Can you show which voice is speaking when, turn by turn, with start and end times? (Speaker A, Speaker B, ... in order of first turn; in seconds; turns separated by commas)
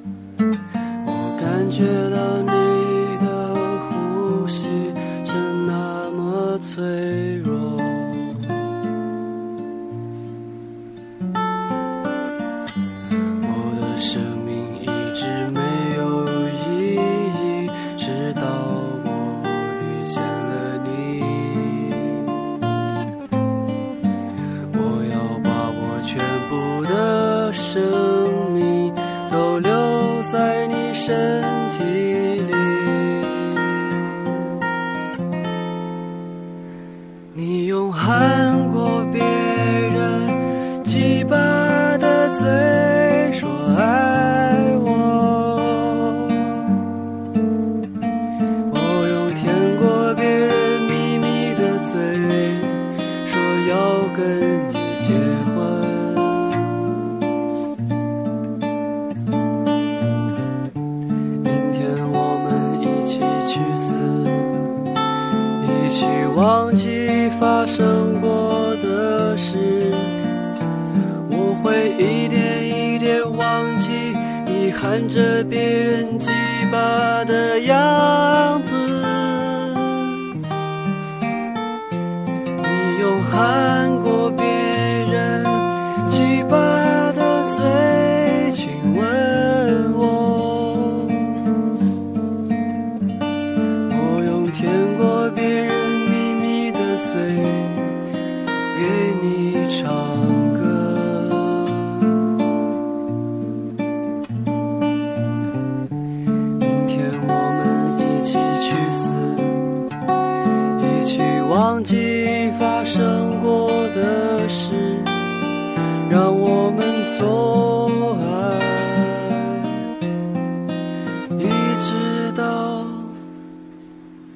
Speaker A: 1.0-8.4, Speaker A: 13.4-22.2, Speaker A: 24.7-33.7, Speaker A: 37.3-46.5, Speaker A: 48.7-56.5, Speaker A: 61.4-64.7, Speaker A: 65.6-70.2, Speaker A: 71.2-80.0, Speaker A: 82.6-91.2, Speaker A: 93.9-98.0, Speaker A: 98.7-101.8, Speaker A: 106.6-109.7, Speaker A: 110.8-115.2, Speaker A: 116.1-119.7, Speaker A: 121.3-123.2